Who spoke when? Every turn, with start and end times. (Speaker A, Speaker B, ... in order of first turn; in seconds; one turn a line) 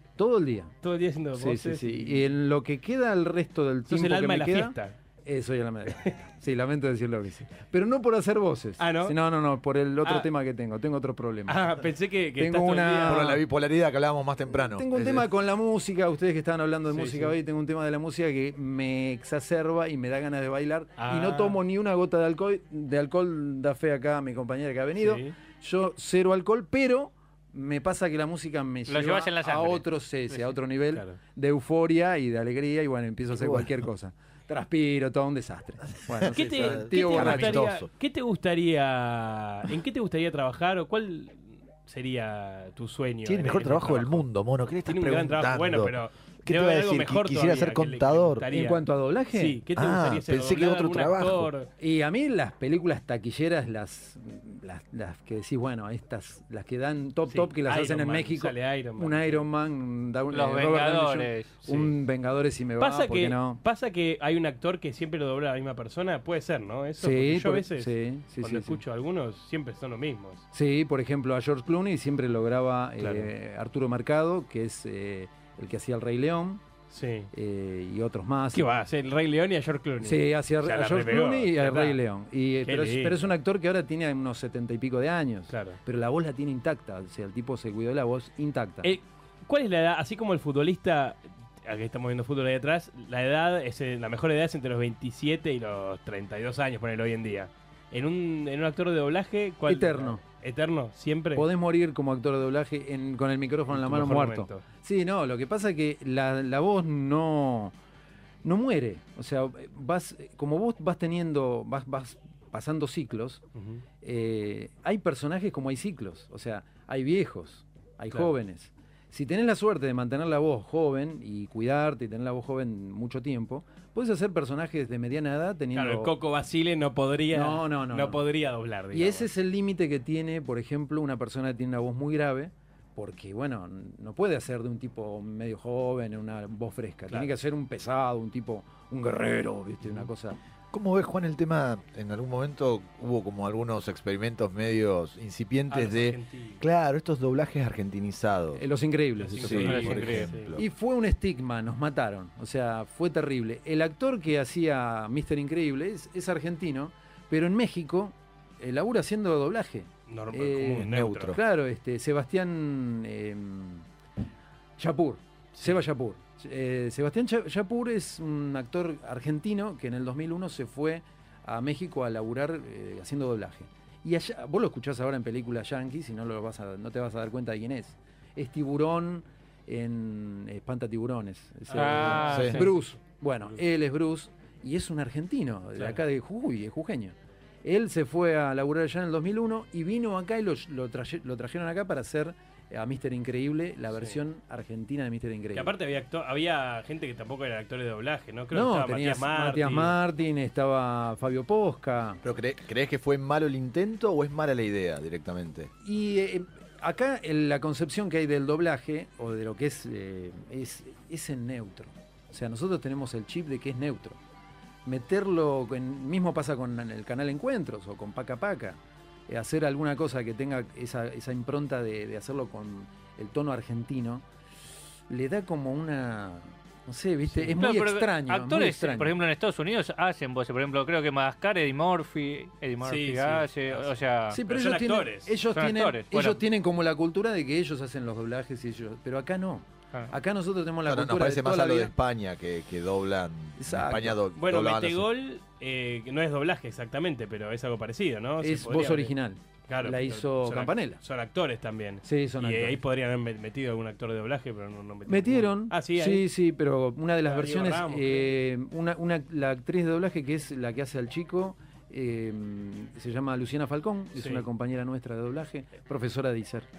Speaker A: 0.2-0.7
Speaker B: 0.8-2.3
Speaker A: 1.3-11.7
Speaker B: 3.9-4.9
Speaker B: 8.8-9.2
Speaker B: 11.5-13.3
Speaker A: 12.4-13.4
Speaker C: 13.0-15.3
Speaker A: 14.7-37.7
Speaker B: 16.9-17.3
Speaker B: 21.0-21.6
Speaker B: 25.0-25.3
Speaker D: 28.9-30.4
Speaker C: 33.3-33.7
Speaker C: 36.0-37.9
Speaker B: 36.3-44.2
Speaker C: 43.2-48.5
Speaker B: 44.9-51.7
Speaker A: 48.5-49.6
Speaker C: 49.7-51.5
Speaker A: 51.8-63.6
Speaker B: 57.2-59.5
Speaker D: 60.3-61.5
Speaker B: 61.6-61.9
Speaker B: 62.8-70.4
Speaker A: 67.0-68.8
Speaker A: 70.5-76.6
Speaker B: 73.0-73.3
Speaker B: 76.9-77.3
Speaker A: 77.3-78.7
Speaker B: 78.5-82.0
Speaker A: 80.0-88.9
Speaker B: 82.7-83.2
Speaker B: 85.5-85.8
Speaker B: 88.8-101.5
Speaker A: 99.7-100.2
Speaker A: 101.3-107.7
Speaker B: 103.7-104.6
Speaker A: 108.4-113.4
Speaker B: 113.5-113.8
Speaker A: 114.0-126.1
Speaker B: 125.7-129.3
Speaker A: 127.3-128.2
Speaker A: 128.9-140.4
Speaker C: 140.7-148.6
Speaker B: 145.7-146.6
Speaker A: 148.6-163.8
Speaker B: 149.2-150.5
Speaker C: 149.3-150.7
Speaker D: 149.5-150.3
Speaker B: 160.1-161.3
Speaker C: 160.8-161.4
Speaker A: 164.8-195.7
Speaker B: 181.7-182.7
Speaker D: 181.7-182.7
Speaker C: 182.1-182.6
Speaker B: 195.5-199.9
Speaker A: 198.5-202.2
Speaker C: 202.2-205.7
Speaker A: 205.8-214.2
Speaker A: 214.8-224.2
Speaker A: 225.1-229.1
Speaker D: 227.5-234.4
Speaker B: 232.8-235.3
Speaker A: 234.3-241.9
Speaker D: 235.5-236.4
Speaker C: 240.8-245.1
Speaker A: 243.6-244.2
Speaker B: 244.3-249.1
Speaker A: 248.4-251.0
Speaker B: 249.7-256.3
Speaker A: 252.0-252.8
Speaker A: 255.1-266.7
Speaker B: 257.2-258.3
Speaker B: 264.1-264.4